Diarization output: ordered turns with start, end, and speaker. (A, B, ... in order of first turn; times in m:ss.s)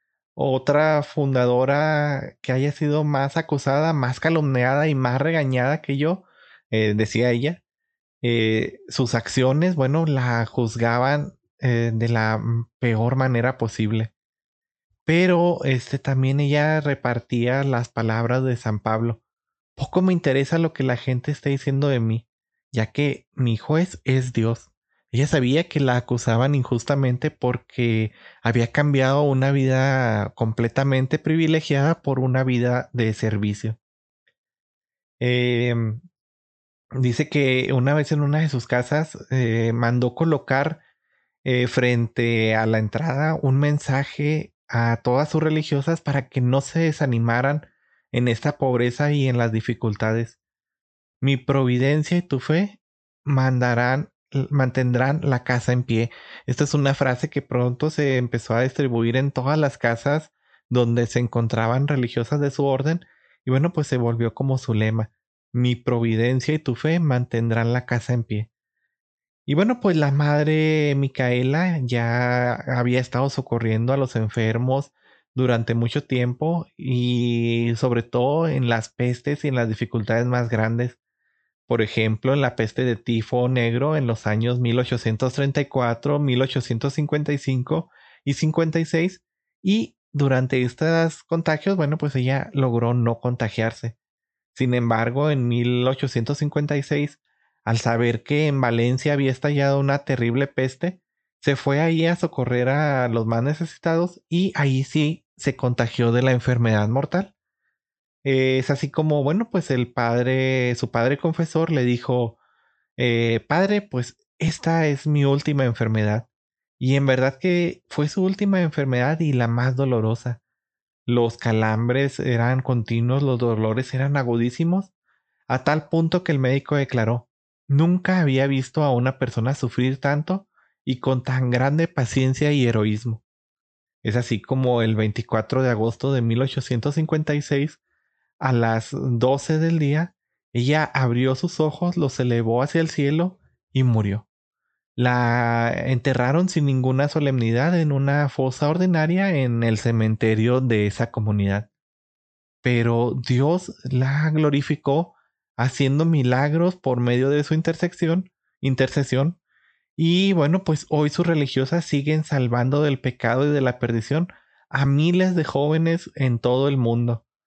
0:00.4-0:07.6 A
0:08.2-0:14.1 A
0:15.1-0:19.2 A
0:19.8-0:33.8 A
0:35.2-0:36.0 A
0:36.9-0:40.8 A
0:41.4-0:50.4 A
0:51.2-1:08.5 A
1:09.5-1:21.0 A
1:21.7-1:34.0 A
1:34.5-1:47.3 A
1:48.2-1:52.4 A
1:53.0-1:56.3 A
1:56.8-2:00.4 A
2:01.1-2:04.9 A
2:05.5-2:13.2 A
2:14.0-2:17.8 A
2:18.4-2:24.3 A
2:25.0-2:31.7 A
2:32.6-2:39.4 A
2:40.0-2:47.2 A